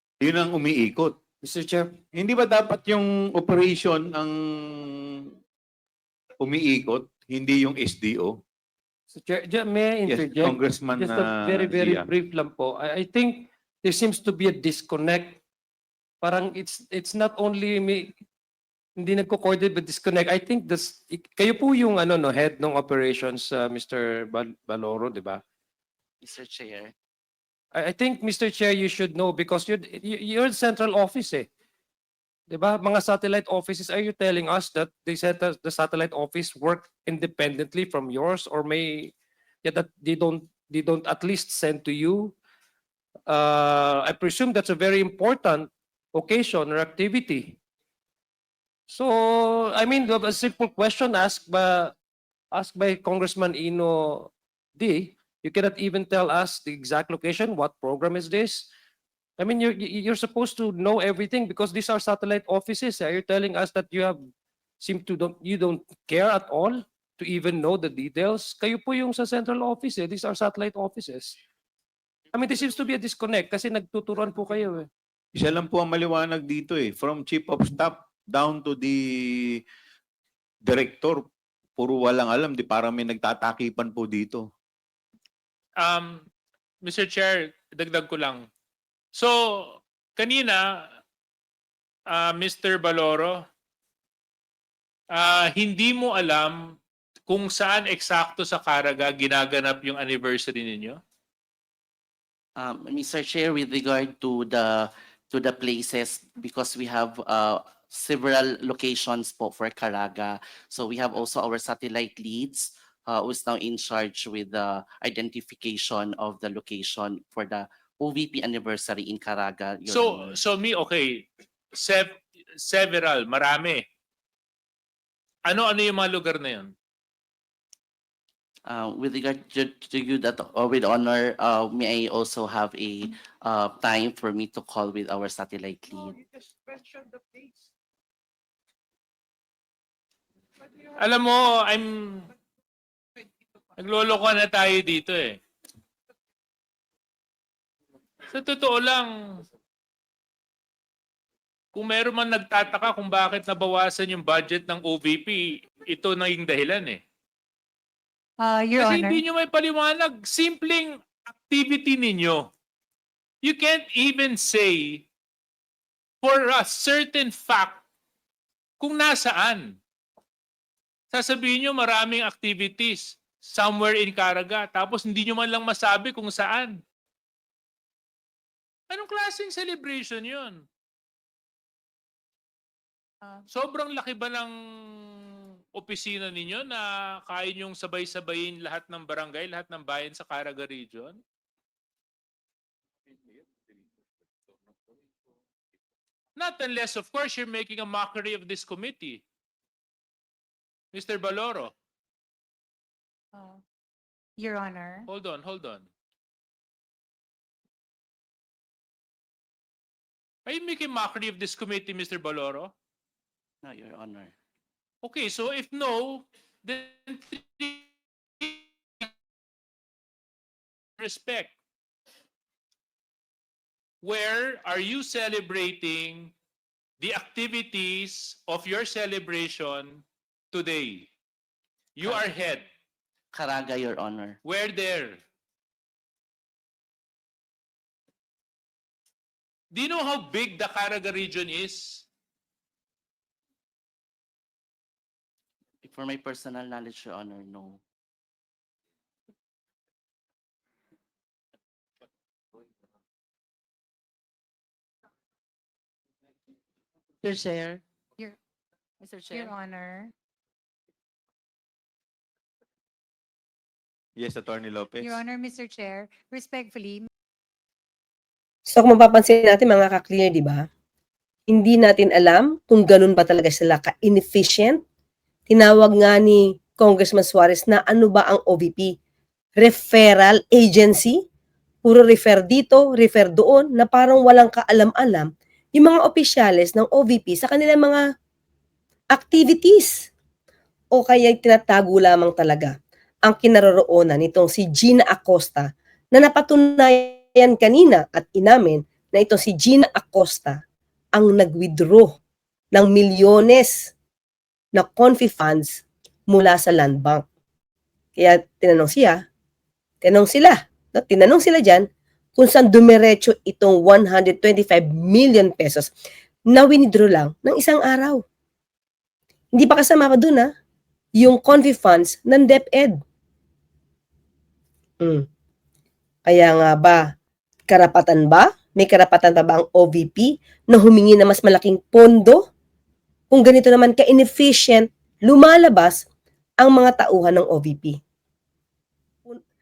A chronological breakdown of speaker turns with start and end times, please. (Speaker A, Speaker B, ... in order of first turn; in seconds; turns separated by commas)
Speaker A: 0.2-1.2, Speaker B: 1.4-1.9, Speaker A: 2.1-5.3, Speaker A: 6.4-8.4, Speaker B: 9.1-15.4, Speaker A: 10.1-12.1, Speaker B: 16.2-18.1, Speaker B: 19.0-25.4, Speaker C: 26.2-26.9, Speaker B: 27.7-31.5, Speaker B: 32.5-39.1, Speaker B: 39.6-42.3, Speaker B: 43.3-47.6, Speaker B: 48.9-51.9, Speaker B: 52.5-58.7, Speaker B: 59.4-64.2, Speaker B: 64.8-71.4, Speaker B: 72.3-74.9, Speaker A: 75.3-79.6, Speaker A: 80.6-84.5, Speaker D: 85.8-86.2, Speaker D: 86.8-88.5, Speaker D: 89.1-90.9, Speaker D: 92.1-93.4, Speaker D: 95.1-96.8, Speaker D: 97.3-101.0, Speaker C: 102.6-120.4, Speaker D: 119.9-123.8, Speaker D: 125.5-126.7, Speaker C: 128.7-136.2, Speaker D: 141.0-142.3, Speaker D: 143.8-145.4, Speaker D: 148.3-149.4, Speaker D: 151.7-157.0, Speaker E: 158.4-159.2, Speaker D: 158.8-162.5, Speaker D: 163.4-165.1, Speaker D: 166.2-167.8, Speaker D: 168.8-169.8, Speaker D: 171.1-176.8, Speaker D: 178.9-180.6, Speaker D: 183.5-191.2, Speaker D: 196.3-199.2, Speaker D: 200.9-201.7, Speaker E: 203.3-203.6, Speaker E: 204.4-205.1, Speaker D: 205.1-205.9, Speaker D: 210.4-212.7, Speaker C: 213.6-214.3, Speaker D: 215.0-217.9, Speaker D: 218.4-219.1, Speaker D: 221.0-221.5, Speaker D: 224.0-226.3, Speaker D: 227.0-231.1, Speaker D: 231.9-232.6, Speaker C: 233.3-234.4, Speaker D: 234.4-235.2, Speaker D: 239.7-242.0, Speaker C: 245.8-247.8, Speaker C: 257.2-257.8, Speaker C: 259.0-259.5, Speaker E: 259.3-260.1, Speaker A: 264.2-265.2, Speaker E: 265.0-267.1, Speaker F: 268.7-270.7, Speaker F: 271.5-274.8, Speaker F: 275.5-278.9, Speaker F: 279.6-281.2, Speaker F: 281.8-288.1, Speaker F: 289.1-290.1, Speaker F: 290.9-300.6, Speaker F: 301.1-302.2, Speaker F: 302.7-303.9, Speaker F: 304.7-307.2, Speaker F: 308.2-309.2, Speaker F: 310.0-315.9, Speaker F: 316.5-318.2, Speaker F: 319.5-320.5, Speaker F: 321.1-323.0, Speaker F: 325.0-325.2, Speaker F: 326.2-327.1, Speaker F: 327.7-332.4, Speaker F: 333.3-336.0, Speaker F: 336.6-338.0